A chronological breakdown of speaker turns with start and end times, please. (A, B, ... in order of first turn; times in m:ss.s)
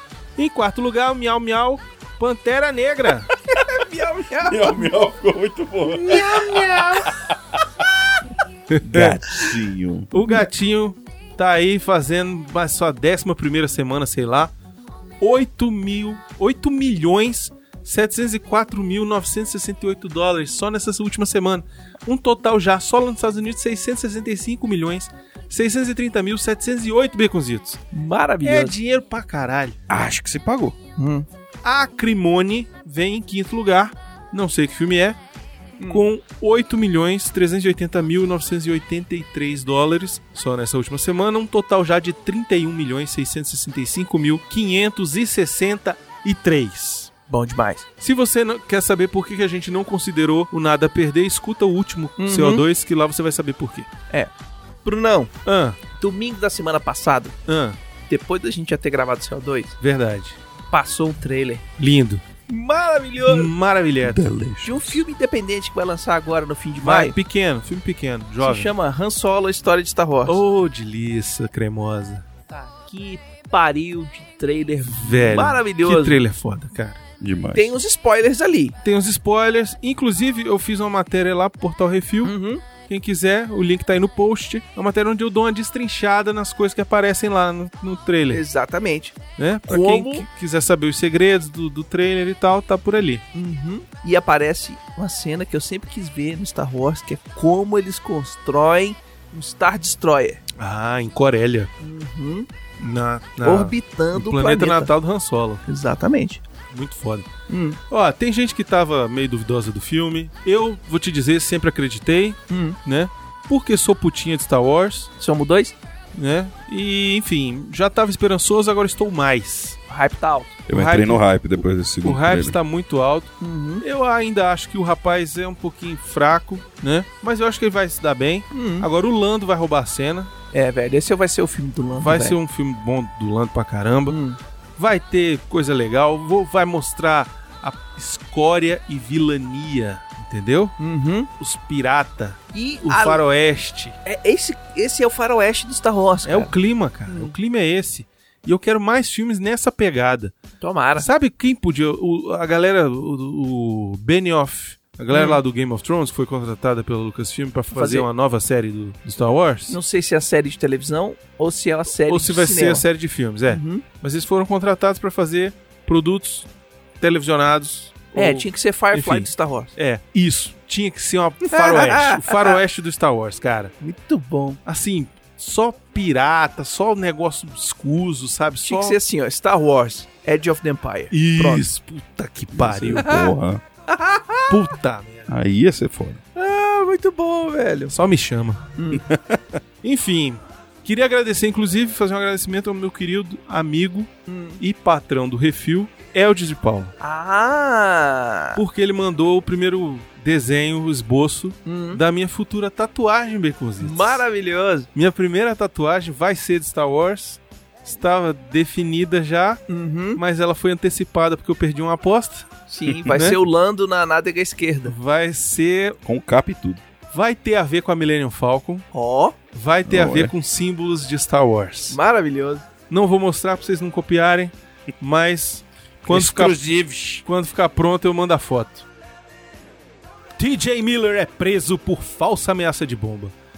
0:00.4-0:03.3 A
0:03.5-0:04.9 B
0:04.4-0:07.3 C
0:05.8-0:07.1 B
0:08.7-0:09.2 A
0:08.8-0:10.1 C
0:10.1-0:14.5 A
0:15.2-0:27.8 A
0:27.9-0:28.7 B
0:28.4-0:29.8 A
0:29.9-0:30.8 C
0:31.0-0:31.3 B
0:31.6-0:35.2 A
0:35.8-0:36.0 B
0:35.9-0:47.1 A
0:47.3-0:47.8 B
0:48.0-0:53.9 A
0:52.2-0:52.6 B
0:54.8-0:55.3 B
0:55.4-0:55.8 A
0:55.9-0:57.4 B
0:57.5-0:57.8 A
0:58.1-0:59.8 B
0:59.8-1:00.4 A
1:00.7-1:01.6 B
1:01.8-1:02.2 A
1:02.5-1:03.5 B
1:03.2-1:04.3 A
1:04.0-1:05.0 C
1:04.6-1:07.1 B
1:06.8-1:08.7 A
1:08.4-1:10.4 B
1:10.2-1:12.2 A
1:12.5-1:16.2 B
1:14.8-1:17.0 A
1:17.2-1:17.7 C
1:17.5-1:18.8 B
1:18.8-1:22.3 A
1:22.2-1:22.6 B
1:22.8-1:28.4 A
1:28.3-1:29.2 B
1:29.4-1:33.2 A
1:29.7-1:30.2 B
1:33.3-1:40.4 B
1:40.6-1:41.7 A
1:41.8-1:42.5 B
1:42.8-1:45.6 A
1:43.4-1:44.9 B
1:45.7-1:46.4 B
1:46.7-1:47.3 A
1:47.5-1:47.8 B
1:47.9-1:55.1 A
1:52.5-1:52.8 B
1:55.2-1:55.7 B
1:56.1-1:59.8 A
1:59.9-2:00.6 B
2:00.7-2:02.6 C
2:00.7-2:01.2 A
2:02.0-2:10.3 A
2:03.4-2:03.8 B
2:08.5-2:08.9 B
2:10.5-2:12.4 B
2:11.9-2:14.2 A
2:14.1-2:14.4 B
2:14.8-2:20.7 A
2:20.8-2:21.3 B
2:21.4-2:24.0 A
2:22.5-2:23.2 B
2:24.0-2:26.5 B
2:26.2-2:30.4 A
2:27.1-2:27.3 B
2:30.6-2:31.1 B
2:31.0-2:39.8 A
2:35.1-2:35.4 B
2:37.7-2:38.1 B
2:39.7-2:42.8 B
2:42.0-2:46.5 A
2:43.5-2:43.8 B
2:47.0-2:53.7 A
2:48.1-2:49.7 B
2:51.5-2:52.6 B
2:53.8-2:54.6 B
2:54.6-2:59.0 A
2:58.6-3:01.6 B
3:01.1-3:03.1 A
3:02.5-3:03.6 C
3:02.9-3:03.3 B
3:03.9-3:04.6 B
3:04.5-3:05.3 A
3:05.3-3:06.2 C
3:06.3-3:07.9 B
3:07.9-3:08.7 A
3:08.8-3:09.1 B
3:08.9-3:09.6 C
3:09.8-3:16.9 A
3:14.3-3:14.6 B
3:17.0-3:18.6 B
3:18.5-3:24.2 A
3:21.6-3:22.0 B
3:23.8-3:24.9 B
3:24.9-3:29.6 A
3:29.7-3:30.2 B
3:30.2-3:32.5 A
3:32.7-3:34.9 B
3:33.0-3:33.4 A
3:34.9-3:36.0 A
3:36.0-3:36.8 C
3:37.1-3:38.8 A
3:38.9-3:39.4 B
3:39.5-3:42.0 A
3:39.9-3:40.3 C
3:41.9-3:42.6 B
3:42.9-3:46.6 A
3:46.0-3:47.2 C
3:47.2-3:48.8 A
3:50.4-3:53.3 A